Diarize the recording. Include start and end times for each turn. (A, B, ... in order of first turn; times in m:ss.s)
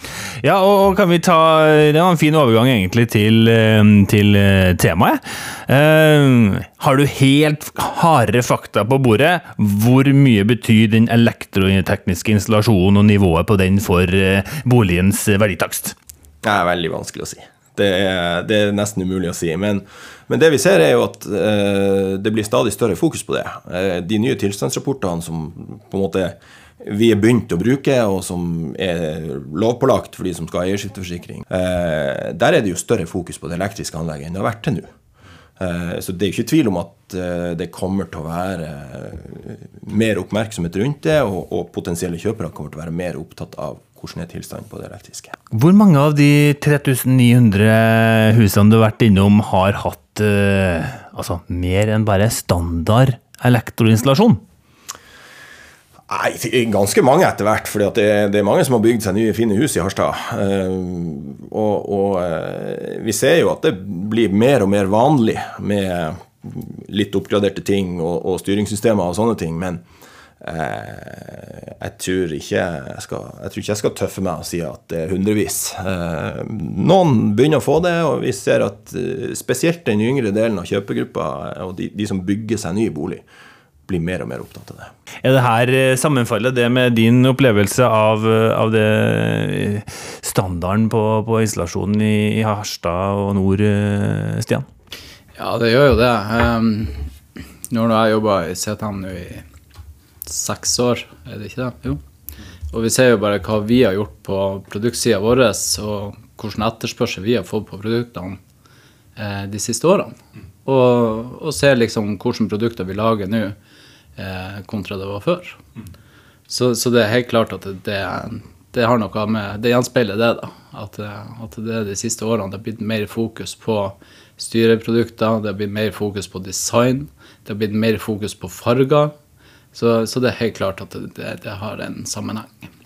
0:00.4-0:16.0 A
0:16.4-0:34.9 B
0:35.6-0:45.4 B
0:45.5-0:54.4 A
0:56.1-1:09.8 B
1:10.4-1:23.2 B
1:23.9-1:24.9 B
1:25.2-1:34.7 A
1:35.4-1:37.1 C
1:37.7-1:39.4 C
1:40.3-1:42.0 C
1:42.7-1:48.4 C
1:49.2-1:53.6 C
1:54.2-1:55.6 C
1:56.5-2:09.2 C
2:09.7-2:12.7 C